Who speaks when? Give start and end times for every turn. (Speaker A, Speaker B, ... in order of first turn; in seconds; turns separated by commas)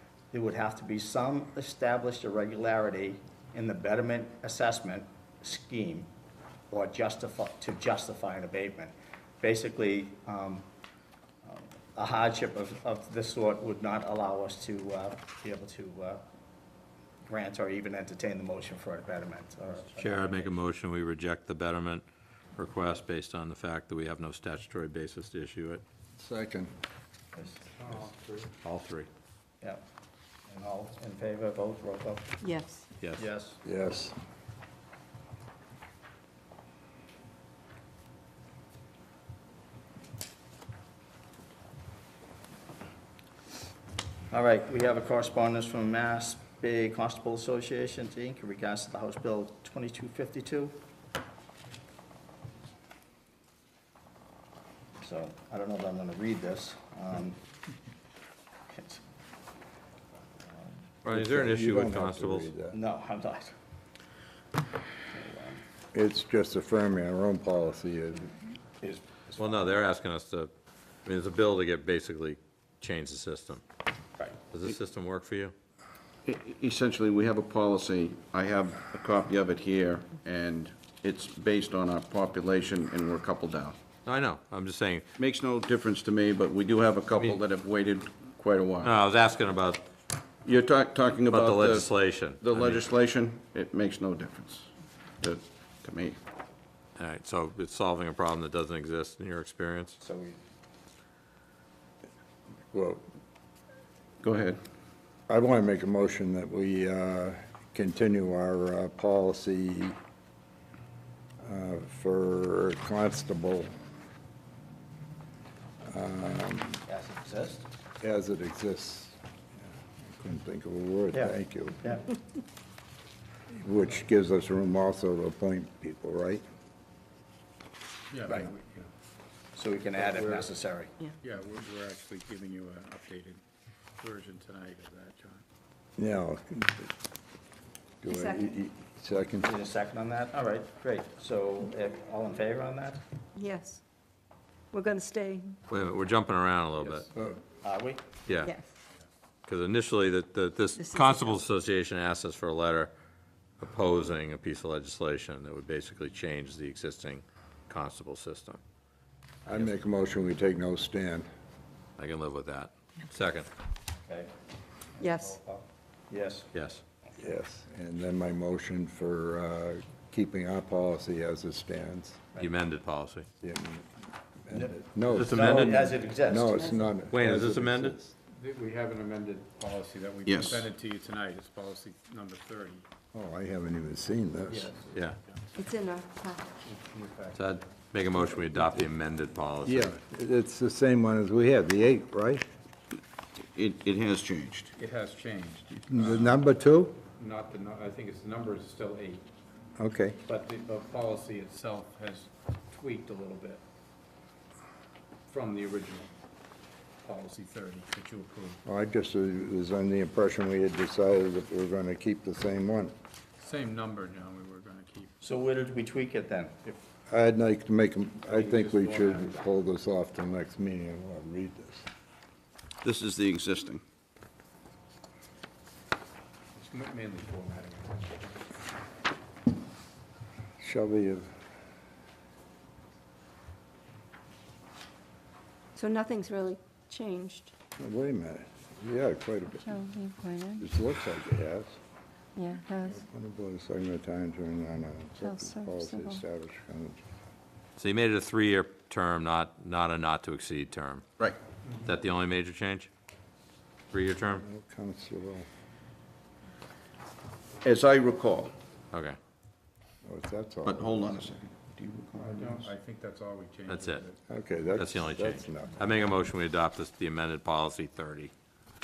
Speaker A: 0.3-6.1, Speaker A: 6.7-10.7, Speaker A: 11.4-16.2, Speaker A: 17.3-20.5, Speaker B: 20.0-22.0, Speaker B: 22.6-25.8, Speaker C: 26.2-26.7, Speaker A: 27.3-27.6, Speaker D: 27.8-28.5, Speaker B: 28.6-29.1, Speaker A: 30.5-32.4, Speaker E: 32.4-32.8, Speaker A: 33.2-33.6, Speaker C: 33.6-34.1, Speaker A: 44.3-50.7, Speaker A: 55.0-57.4, Speaker A: 58.7-59.0, Speaker B: 61.0-62.5, Speaker C: 61.0-62.8, Speaker A: 62.7-63.5, Speaker A: 65.1-65.6, Speaker C: 65.9-68.3, Speaker A: 68.8-69.8, Speaker B: 69.4-70.5, Speaker B: 71.0-73.6, Speaker B: 74.5-75.5, Speaker F: 76.2-83.8, Speaker B: 84.0-85.0, Speaker F: 85.2-88.9, Speaker B: 87.1-87.4, Speaker B: 88.8-89.8, Speaker F: 90.4-96.2, Speaker B: 91.3-92.8, Speaker B: 97.0-100.0, Speaker A: 100.0-100.4, Speaker C: 102.7-103.0, Speaker F: 104.2-104.6, Speaker C: 105.3-110.0, Speaker C: 111.4-113.7, Speaker C: 115.8-116.8, Speaker A: 116.8-117.7, Speaker C: 118.0-119.2, Speaker C: 120.0-121.8, Speaker A: 121.1-122.0, Speaker C: 123.5-126.4, Speaker D: 128.1-128.9, Speaker A: 128.3-128.5, Speaker A: 129.5-130.9, Speaker D: 130.1-130.4, Speaker D: 131.2-133.4, Speaker D: 134.0-135.4, Speaker C: 136.0-136.9, Speaker C: 138.0-139.5, Speaker E: 138.1-138.4, Speaker A: 139.4-143.0, Speaker E: 143.4-143.8, Speaker E: 144.7-145.6, Speaker B: 145.7-147.1, Speaker A: 147.6-148.0, Speaker B: 148.3-148.5, Speaker B: 149.4-152.9, Speaker E: 150.9-151.4, Speaker B: 153.6-158.6, Speaker B: 159.4-159.7, Speaker C: 159.4-161.3, Speaker B: 162.0-163.5, Speaker A: 164.0-164.3, Speaker A: 164.9-166.5, Speaker E: 165.0-165.3, Speaker B: 166.5-166.8, Speaker C: 167.2-172.3, Speaker B: 172.4-173.3, Speaker C: 173.4-173.9, Speaker C: 174.5-178.1, Speaker A: 174.5-176.8, Speaker B: 175.1-175.9, Speaker B: 177.1-178.0, Speaker D: 178.3-182.8, Speaker F: 180.2-180.7, Speaker C: 183.1-184.8, Speaker D: 184.5-185.6, Speaker E: 185.9-186.4, Speaker D: 186.6-187.4, Speaker B: 187.3-190.0, Speaker C: 188.5-188.8, Speaker C: 189.6-192.4, Speaker F: 193.4-194.7, Speaker D: 194.8-196.3, Speaker C: 195.9-197.0, Speaker D: 197.2-199.2, Speaker C: 199.8-200.2, Speaker D: 200.3-203.6, Speaker D: 205.3-206.1, Speaker D: 207.0-208.6, Speaker C: 208.6-212.9, Speaker D: 213.4-215.1, Speaker A: 215.2-216.8, Speaker C: 217.1-221.8, Speaker D: 218.3-219.3, Speaker F: 222.8-223.8, Speaker D: 226.5-228.4, Speaker C: 230.6-231.3, Speaker E: 235.7-237.5, Speaker C: 237.8-239.8, Speaker E: 239.6-240.7, Speaker C: 240.6-241.8, Speaker E: 242.3-243.0, Speaker C: 242.9-247.0, Speaker E: 245.2-246.2, Speaker B: 247.8-251.1, Speaker B: 251.8-252.9, Speaker B: 253.9-254.4, Speaker C: 254.4-255.5, Speaker F: 257.6-258.5, Speaker C: 260.0-261.4, Speaker F: 260.6-262.6, Speaker D: 262.2-264.2, Speaker B: 263.7-264.0, Speaker C: 264.3-265.8, Speaker B: 264.8-268.3